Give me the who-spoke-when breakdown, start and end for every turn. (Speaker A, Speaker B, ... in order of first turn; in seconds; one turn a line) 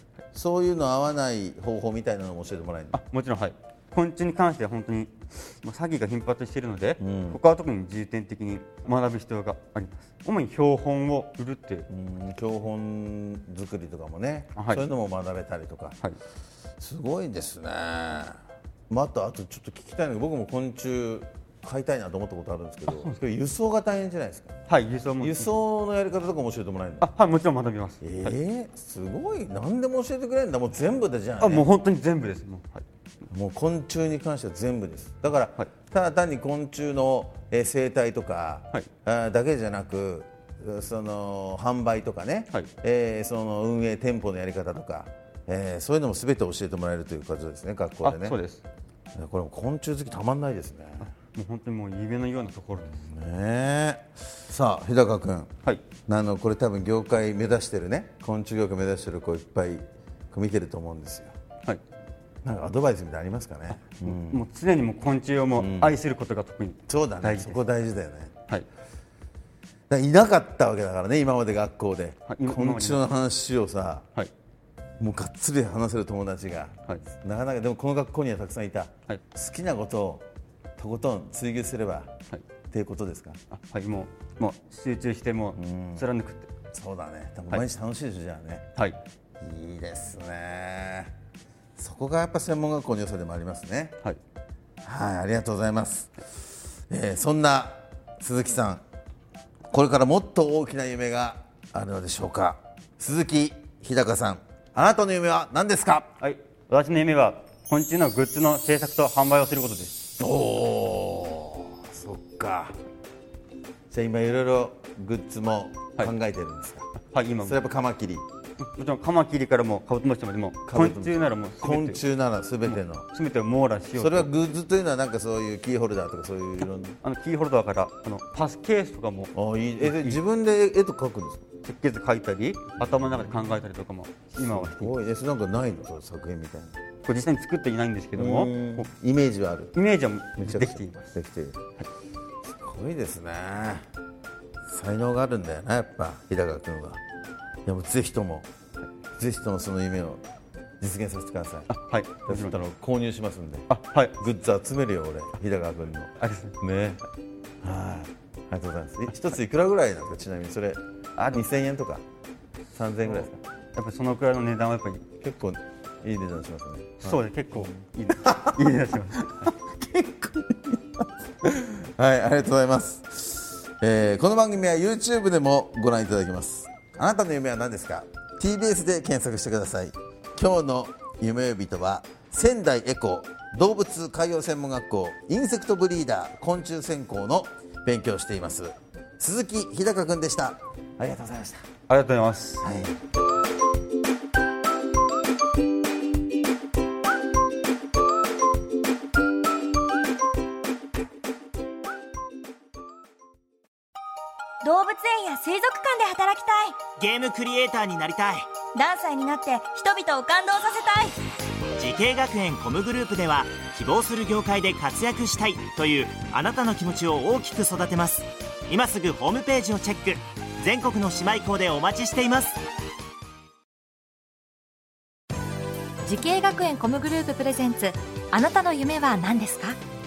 Speaker A: 0.3-3.0
Speaker B: 2.9-11.9
Speaker A: 7.0-7.4
Speaker A: 11.9-16.0
Speaker B: 14.6-14.9
Speaker A: 16.8-18.4
Speaker A: 18.9-24.5
Speaker B: 22.9-23.1
Speaker B: 24.7-25.5
Speaker A: 25.2-27.1
Speaker B: 27.0-28.3
Speaker A: 28.0-31.7
Speaker B: 31.4-32.8
Speaker A: 33.3-48.4
Speaker B: 48.0-48.6
Speaker A: 49.1-51.1
Speaker B: 51.0-53.0
Speaker A: 52.9-55.5
Speaker A: 56.1-61.3
Speaker A: 62.4-64.4
Speaker B: 63.9-67.6
Speaker A: 65.5-66.0
Speaker A: 66.9-68.3
Speaker A: 69.9-74.0
Speaker B: 72.2-73.0
Speaker A: 75.0-80.2
Speaker A: 80.8-82.1
Speaker A: 82.7-83.4
Speaker B: 83.5-86.5
Speaker A: 85.5-86.1
Speaker A: 86.7-88.6
Speaker A: 89.4-91.1
Speaker A: 91.8-94.0
Speaker A: 94.8-96.2
Speaker A: 96.9-98.8
Speaker A: 99.7-106.1
Speaker B: 106.2-110.1
Speaker A: 110.2-112.8
Speaker A: 113.9-116.9
Speaker B: 117.1-117.6
Speaker A: 117.4-118.2
Speaker B: 118.6-122.0
Speaker A: 120.7-123.0
Speaker B: 122.6-124.3
Speaker A: 124.0-127.0
Speaker B: 127.0-130.2
Speaker A: 129.3-131.4
Speaker B: 131.6-134.9
Speaker A: 134.4-136.7
Speaker B: 137.0-138.9
Speaker A: 138.1-139.8
Speaker B: 139.7-141.1
Speaker A: 140.4-141.6
Speaker A: 142.4-143.8
Speaker A: 144.7-147.0
Speaker A: 147.7-148.5
Speaker A: 149.2-150.2
Speaker A: 150.8-151.7
Speaker B: 151.7-152.6
Speaker A: 152.2-153.7
Speaker B: 153.7-154.2
Speaker A: 154.2-157.0
Speaker B: 156.2-156.6
Speaker A: 157.6-162.0
Speaker B: 161.2-161.4
Speaker A: 162.7-163.3
Speaker B: 163.0-165.0
Speaker A: 165.2-167.7
Speaker B: 167.0-169.5
Speaker A: 168.2-168.6
Speaker A: 169.6-191.6
Speaker B: 191.9-192.7
Speaker A: 192.6-192.9
Speaker C: 204.6-206.9
Speaker D: 207.0-208.5
Speaker C: 208.7-211.2
Speaker D: 211.8-222.6
Speaker E: 226.0-229.8